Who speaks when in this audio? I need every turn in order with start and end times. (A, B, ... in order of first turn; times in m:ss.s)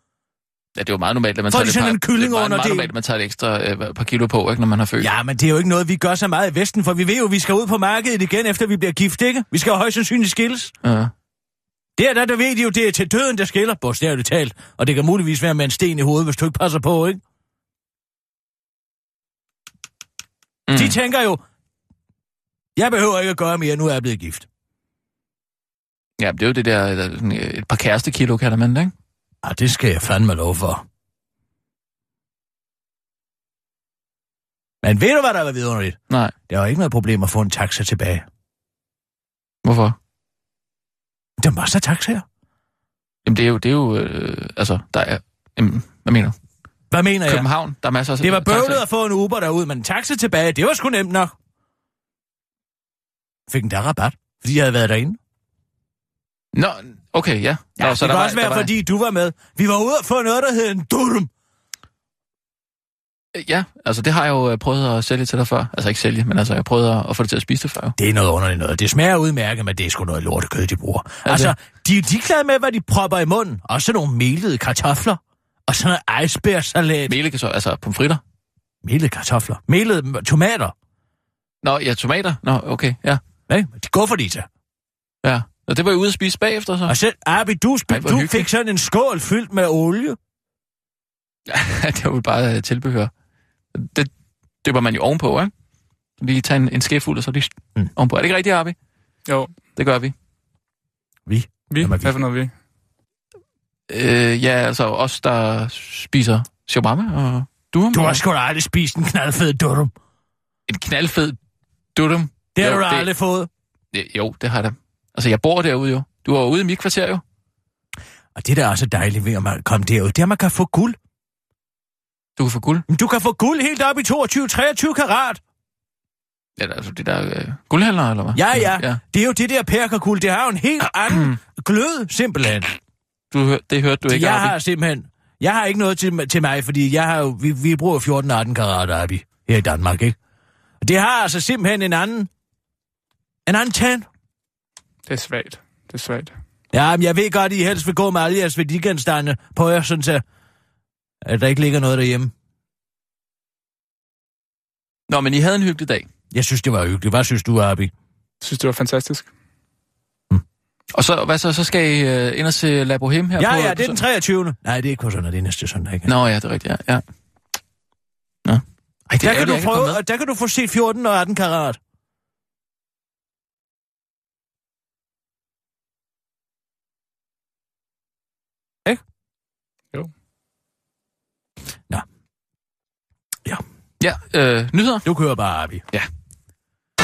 0:00.8-0:05.1 A
0:01.5-0:02.9 B
0:05.0-0:10.7 B
0:10.8-0:11.1 A
0:12.0-0:17.2 B
0:20.7-0:20.9 A
0:20.7-0:21.4 B
0:22.8-0:24.5 B
0:26.2-0:28.9 A
0:29.4-0:30.8 B
0:34.8-0:38.2 B
0:39.6-0:40.0 A
0:41.4-0:42.2 B
0:43.2-0:46.3 A
0:46.9-0:47.5 B
0:47.3-0:48.8 A
0:48.2-0:51.3 B
0:53.5-0:55.2 B
0:56.5-0:58.7 A
0:57.8-1:01.3 B
1:03.3-1:07.9 A
1:08.0-1:17.1 B
1:11.2-1:11.5 A
1:17.1-1:18.2 A
1:18.8-1:20.7 B
1:21.6-1:23.2 A
1:23.5-1:24.5 B
1:25.2-1:26.9 A
1:26.8-1:30.2 B
1:27.9-1:28.5 A
1:31.5-1:33.1 A
1:33.7-1:34.1 A
1:34.6-1:35.5 A
1:36.2-1:38.8 A
1:39.3-1:39.5 C
1:39.8-1:40.1 A
1:41.2-1:42.1 B
1:41.7-1:42.5 C
1:43.9-1:48.2 A
1:47.9-1:49.9 B
1:50.7-1:51.4 A
1:51.9-1:53.1 A
1:52.5-1:53.5 B
1:53.9-1:57.2 A
1:58.4-2:01.0 B
2:02.4-2:02.8 A
2:02.9-2:05.4 B
2:06.6-2:09.0 A
2:08.3-2:12.8 B
2:13.3-2:14.6 A
2:14.1-2:20.2 B
2:20.8-2:22.3 B
2:23.4-2:24.0 B
2:25.0-2:26.3 C
2:26.7-2:30.2 B
2:31.2-2:32.3 B
2:35.1-2:36.1 A
2:36.3-2:37.9 B
2:38.4-2:39.3 C
2:40.9-2:44.0 A
2:43.4-2:46.1 B
2:46.0-2:47.0 A
2:49.1-2:51.8 B
2:49.2-2:50.0 A
3:04.0-3:05.1 A
3:05.0-3:05.8 B